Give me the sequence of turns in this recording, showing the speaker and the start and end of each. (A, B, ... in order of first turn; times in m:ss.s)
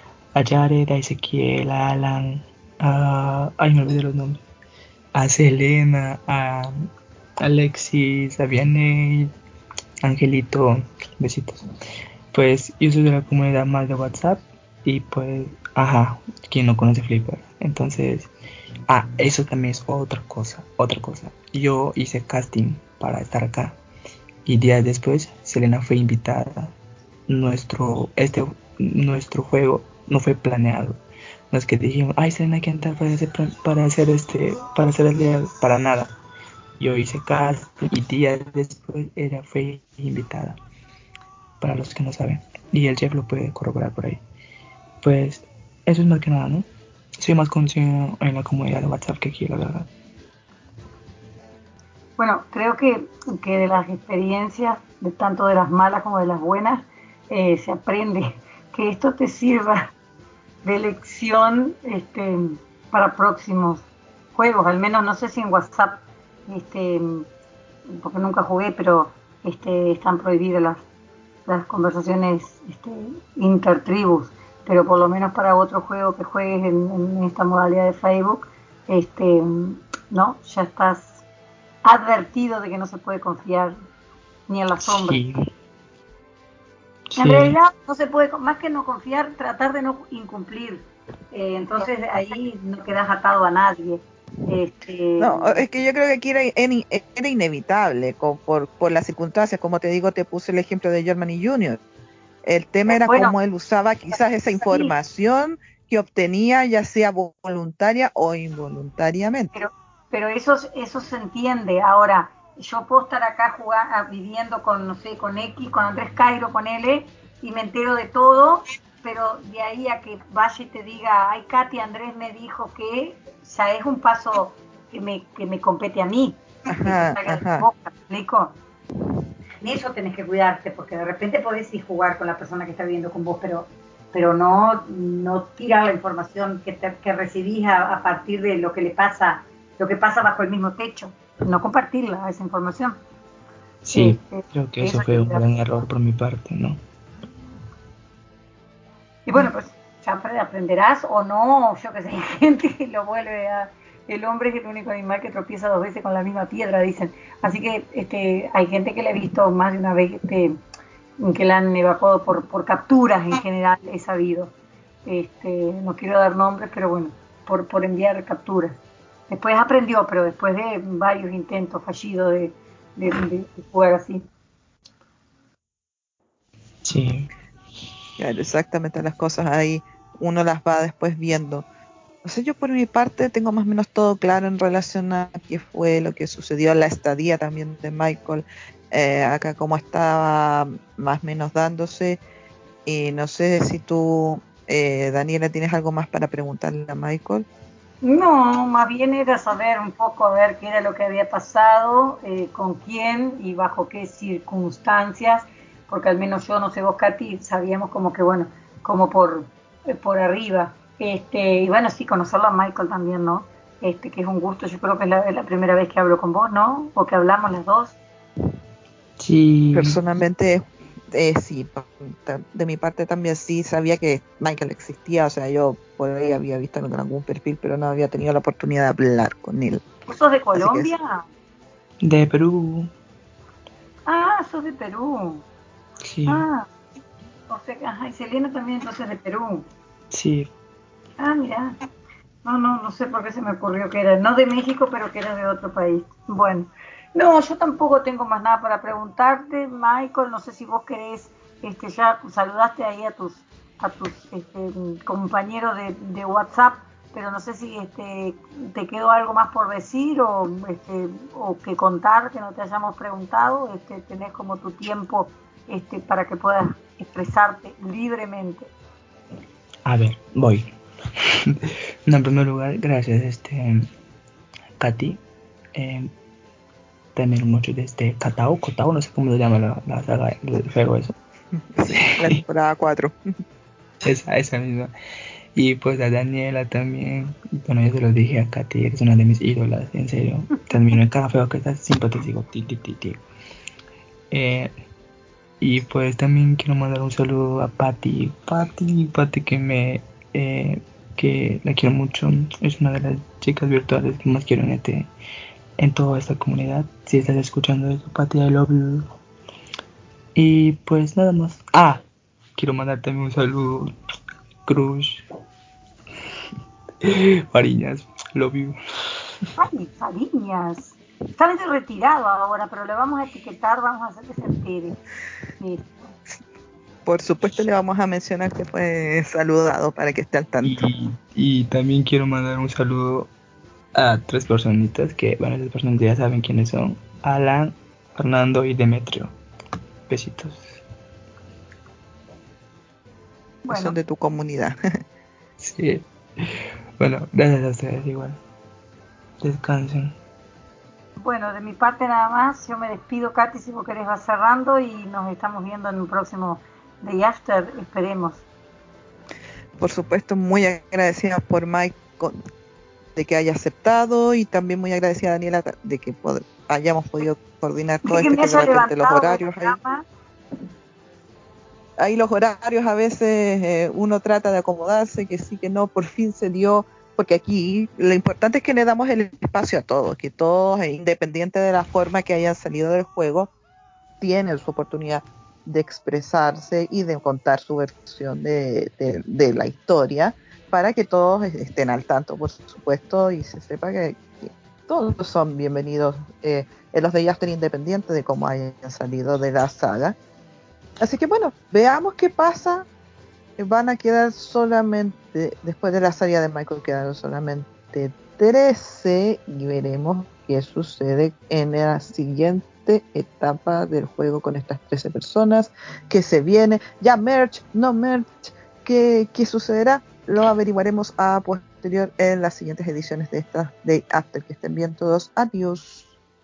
0:00.3-0:04.4 A
0:05.1-0:06.9 A
0:07.4-0:09.3 A
0:10.0-0:11.6 A
0:12.3-0:18.3 A
0:18.9-0:23.8 A
0:24.4-0:26.7 A
0:27.3-0:31.0 A
0:31.5-0:36.1 A
0:36.8-0:40.6 A
0:41.6-0:44.2 A
0:45.0-0:46.6 A
0:47.2-0:49.9 A
0:52.2-0:59.9 B
1:00.6-1:07.3 B
1:07.9-1:10.8 B
1:11.4-1:21.2 B
1:21.8-1:23.7 B
1:24.5-1:25.2 B
1:24.8-1:25.4 A
1:27.1-1:27.5 A
1:27.2-1:35.6 B
1:35.2-1:41.8 C
1:42.4-1:49.5 C
1:42.9-1:43.3 B
1:44.6-1:44.9 B
1:49.5-2:08.6 B
2:06.7-2:07.6 C
2:09.6-2:23.0 B
2:23.8-2:26.8 A
2:23.9-2:25.4 B
2:29.2-2:40.6 B
2:41.2-2:44.5 B
2:45.0-2:48.8 B
2:49.3-2:54.3 B
2:56.8-2:57.3 A
2:58.2-3:01.6 C
3:02.2-3:12.2 C
3:12.8-3:17.4 C
3:18.0-3:38.0 B
3:39.2-3:40.0 A
3:39.7-3:49.8 C
3:50.1-3:51.2 B
3:50.5-3:50.9 C
3:52.0-3:52.9 A
3:54.0-3:55.4 B
3:56.0-3:56.4 A
3:56.3-3:56.7 B
3:57.5-3:59.7 B
4:00.1-4:00.5 A
4:01.2-4:01.8 B
4:02.4-4:28.7 B
4:29.8-4:30.7 A
4:31.4-4:33.9 A
4:34.8-4:35.2 A
4:35.7-4:36.1 A
4:37.1-4:41.2 A
4:41.8-4:43.1 C
4:42.0-4:42.4 A
4:44.0-4:44.9 A
4:45.6-4:53.2 A
4:54.3-4:54.7 A
4:55.6-5:05.1 A
5:05.8-5:09.0 A
5:10.3-5:12.0 A
5:12.6-5:13.9 A
5:14.6-5:15.2 A
5:17.0-5:18.8 A
5:19.6-5:25.0 B
5:25.6-5:26.1 B
5:27.0-5:30.8 C
5:30.6-5:33.3 A
5:33.9-5:39.3 A
5:40.1-5:40.8 A
5:43.7-5:44.0 B
5:43.7-5:44.8 C
5:45.6-5:48.4 A
5:49.4-5:50.2 A
5:51.2-5:58.4 B
5:59.8-6:02.4 C
6:03.2-6:09.8 C
6:08.0-6:10.0 B
6:12.0-6:23.5 C
6:24.2-6:40.2 C
6:41.0-6:42.9 C
6:43.6-7:06.1 C